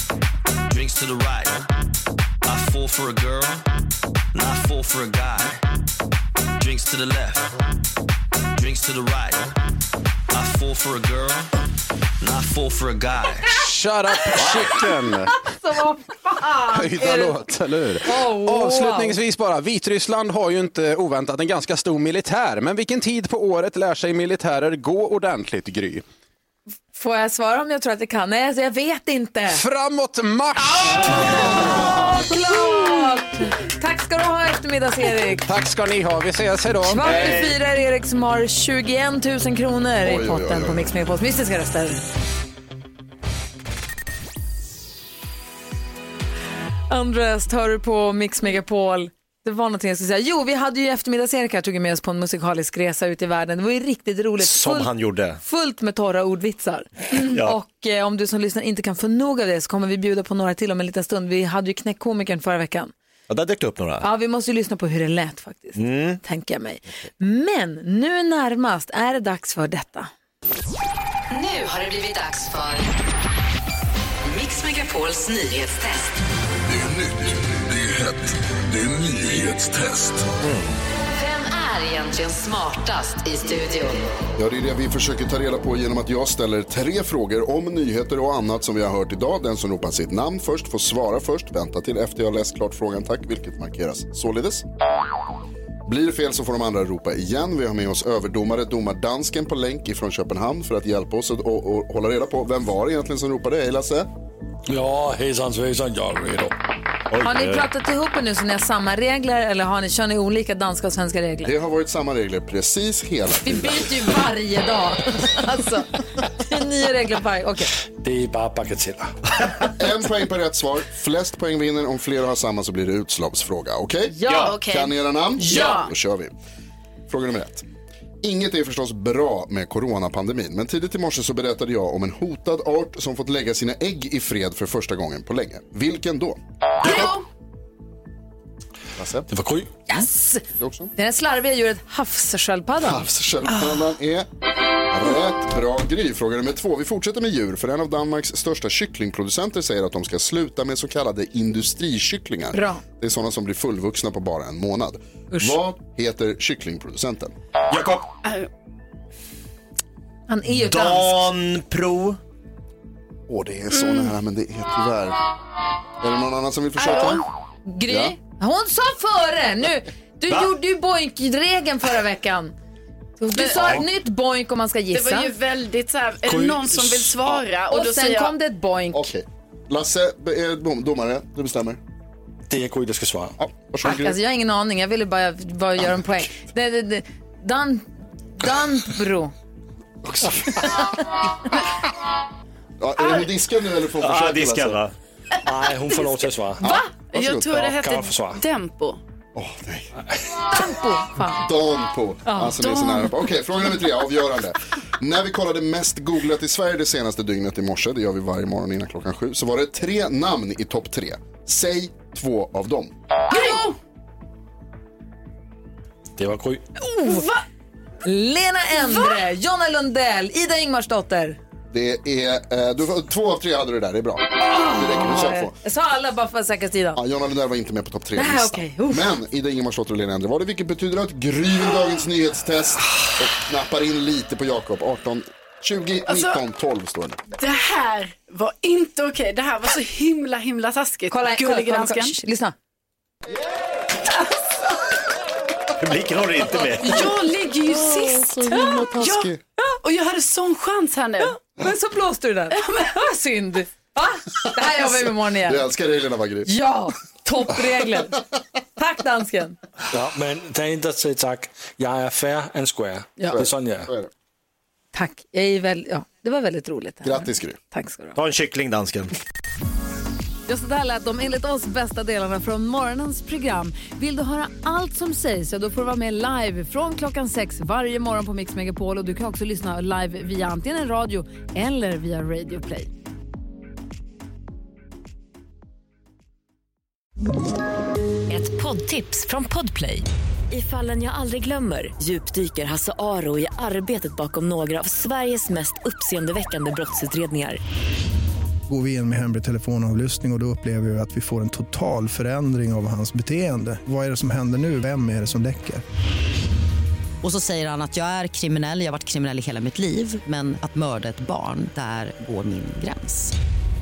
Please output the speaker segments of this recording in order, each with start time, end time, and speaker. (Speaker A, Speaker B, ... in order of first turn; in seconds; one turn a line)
Speaker A: 0.7-1.5
Speaker A: 2.5-3.6
Speaker A: 4.4-5.5
Speaker A: 6.6-7.4
Speaker A: 8.6-9.4
Speaker A: 10.3-11.4
Speaker A: 12.2-13.3
Speaker B: 13.5-15.4
Speaker C: 14.1-17.5
Speaker B: 16.7-26.0
Speaker C: 18.0-19.2
Speaker C: 26.9-29.6
Speaker B: 29.5-31.6
Speaker C: 30.6-35.5
Speaker B: 35.5-37.2
Speaker C: 36.9-42.0
Speaker D: 37.0-37.5
Speaker E: 40.0-40.9
Speaker C: 46.9-62.9
Speaker D: 54.4-55.4
Speaker D: 57.2-57.6
Speaker D: 63.3-64.1
Speaker C: 64.0-70.1
Speaker D: 65.8-66.2
Speaker F: 71.3-73.0
Speaker F: 74.2-76.2
Speaker D: 80.4-80.7
Speaker F: 81.1-84.1
Speaker E: 84.4-94.7
Speaker E: 95.9-104.1
Speaker G: 104.7-106.5
Speaker D: 107.1-107.7
Speaker C: 107.2-111.5
Speaker E: 111.4-114.0
Speaker C: 113.4-117.7
Speaker G: 118.0-119.2
Speaker E: 119.7-126.3
Speaker C: 124.1-124.6
Speaker H: 124.3-124.9
Speaker C: 125.4-125.9
Speaker H: 125.5-125.8
Speaker E: 127.1-127.7
Speaker E: 128.2-137.1
Speaker E: 139.0-139.3
Speaker G: 139.3-139.7
Speaker C: 139.9-140.4
Speaker E: 140.6-140.9
Speaker C: 141.0-143.0
Speaker E: 142.8-144.3
Speaker E: 144.9-157.3
Speaker C: 152.5-152.8
Speaker C: 155.3-155.6
Speaker D: 157.7-158.1
Speaker C: 160.3-161.2
Speaker D: 160.6-162.2
Speaker E: 163.3-165.2
Speaker E: 166.0-167.2
Speaker C: 166.8-172.5
Speaker E: 167.9-168.2
Speaker D: 170.3-170.6
Speaker C: 173.2-175.3
Speaker H: 173.3-173.7
Speaker D: 173.6-173.8
Speaker H: 174.9-178.3
Speaker G: 176.3-177.1
Speaker C: 177.7-179.1
Speaker E: 178.9-181.8
Speaker G: 182.5-183.3
Speaker E: 183.4-184.2
Speaker C: 183.8-189.3
Speaker E: 190.0-190.7
Speaker E: 192.8-194.8
Speaker H: 193.0-193.3
Speaker D: 194.0-194.9
Speaker G: 195.4-196.6
Speaker H: 195.7-199.0
Speaker E: 196.6-197.5
Speaker G: 197.5-198.4
Speaker E: 199.3-199.9
Speaker C: 200.5-201.5
Speaker E: 201.4-212.9
Speaker C: 202.3-202.8
Speaker H: 202.6-203.1
Speaker H: 213.3-213.8
Speaker G: 216.2-216.6
Speaker C: 216.8-217.3
Speaker H: 217.0-217.4
Speaker C: 218.1-221.4
Speaker E: 221.7-225.6
Speaker C: 224.4-227.0
Speaker E: 227.0-237.2
Speaker C: 228.2-229.1
Speaker H: 236.1-236.4
Speaker H: 237.4-242.1
Speaker C: 241.1-242.6
Speaker D: 245.8-247.0
Speaker H: 246.8-251.4
Speaker E: 247.7-249.4
Speaker C: 251.5-255.7
Speaker H: 252.6-252.9
Speaker E: 255.4-256.5
Speaker C: 256.5-258.2
Speaker C: 258.8-259.6
Speaker G: 259.9-263.9
Speaker E: 263.3-264.1
Speaker C: 264.9-268.1
Speaker E: 267.0-267.6
Speaker D: 268.1-269.1
Speaker C: 270.5-282.9
Speaker I: 288.3-297.6
Speaker J: 298.7-305.8
Speaker K: 307.2-313.3